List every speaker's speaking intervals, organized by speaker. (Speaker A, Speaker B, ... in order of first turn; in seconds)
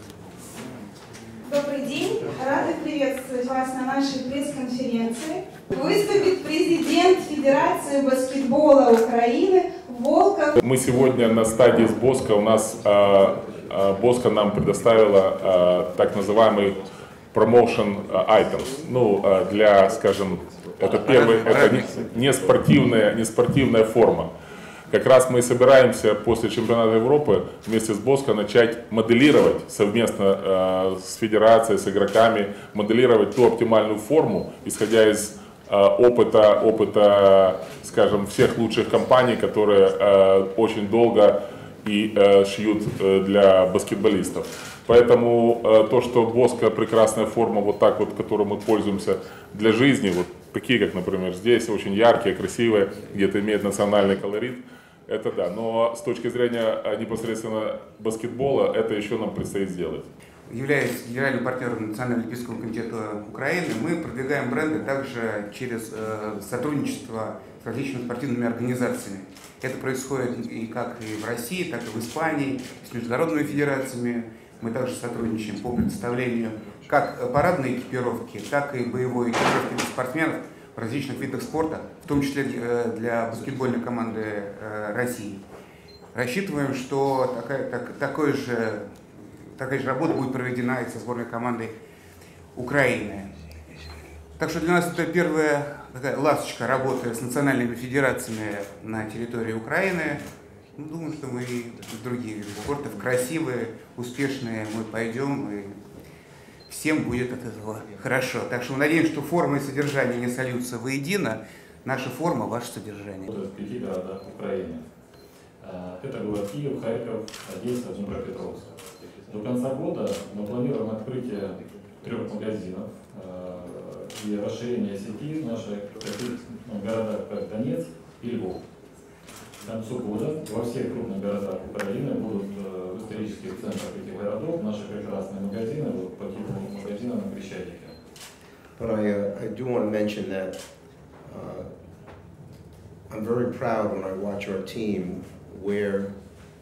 Speaker A: 1.4-10.6
Speaker B: 10.6-24.3, 24.9-60.1
Speaker C: 20.9-22.0, 60.5-85.4, 86.1-88.9, 89.5-91.8, 92.5-93.5, 94.4-105.8, 106.7-113.3
Speaker D: 113.3-114.8, 115.6-118.7, 119.2-128.6, 129.6-138.0
Speaker E: 138.8-140.6, 141.2-141.7, 143.1-146.1